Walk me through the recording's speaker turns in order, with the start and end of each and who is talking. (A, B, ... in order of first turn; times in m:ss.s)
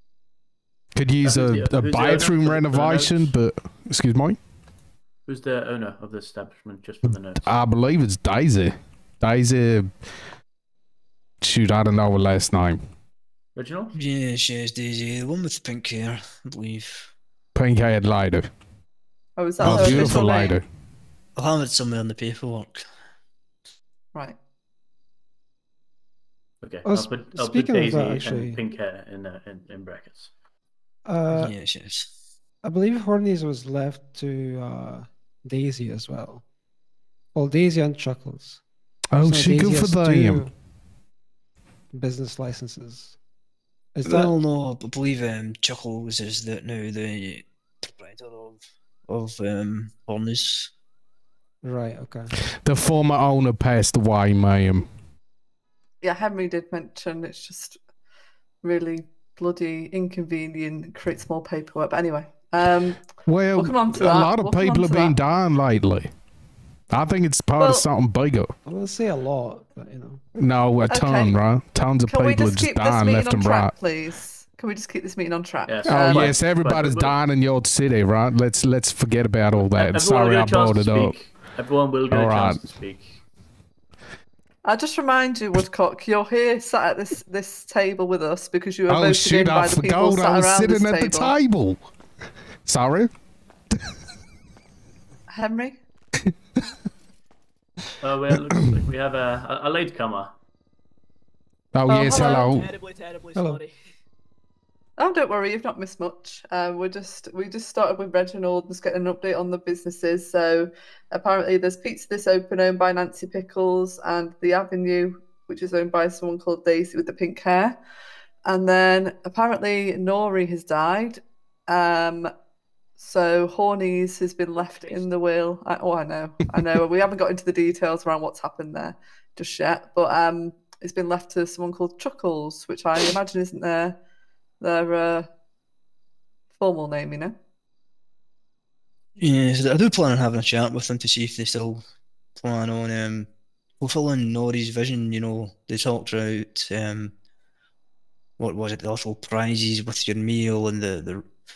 0:00.9-0:04.4 A
0:01.2-0:03.3 B
0:05.2-0:07.5 B
0:07.4-0:09.9 A
0:11.4-0:12.8 A
0:13.5-0:13.9 B
0:13.9-0:17.1 C
0:17.5-0:18.5 A
0:19.4-0:20.6 D
0:19.6-0:20.6 A
0:19.6-0:20.2 C
0:21.4-0:22.8 C
0:26.6-0:30.3 B
0:26.8-0:28.6 E
0:31.0-0:31.5 E
0:31.3-0:32.1 C
0:32.6-0:36.4 E
0:37.3-0:38.6 E
0:39.1-0:40.4 A
0:39.2-0:40.5 E
0:41.9-0:43.2 E
0:43.9-0:44.4 E
0:44.0-0:50.7 C
0:51.6-0:52.3 E
0:52.6-0:54.9 A
0:56.0-0:57.8 D
0:58.6-1:05.2 D
1:03.2-1:06.1 A
1:06.9-1:08.5 A
1:07.6-1:07.9 D
1:08.6-1:10.2 E
1:10.4-1:13.7 A
1:10.9-1:11.4 D
1:12.0-1:16.3 D
1:15.6-1:17.2 B
1:15.9-1:21.1 A
1:19.6-1:23.1 B
1:22.1-1:22.6 A
1:24.6-1:31.4 D
1:28.9-1:31.8 A
1:32.6-1:33.1 A
1:35.3-1:35.8 D
1:38.0-1:40.3 B
1:41.7-1:42.7 A
1:41.9-1:42.6 D
1:42.1-1:43.7 F
1:43.3-1:43.6 E
1:45.0-1:57.8 D
1:58.4-2:02.3 D
2:03.0-2:13.9 D
2:04.6-2:05.0 F
2:14.6-2:15.3 D
2:16.5-2:17.3 D
2:19.2-2:21.8 C
2:22.4-2:23.3 C
2:23.8-2:27.1 C
2:28.4-2:31.2 C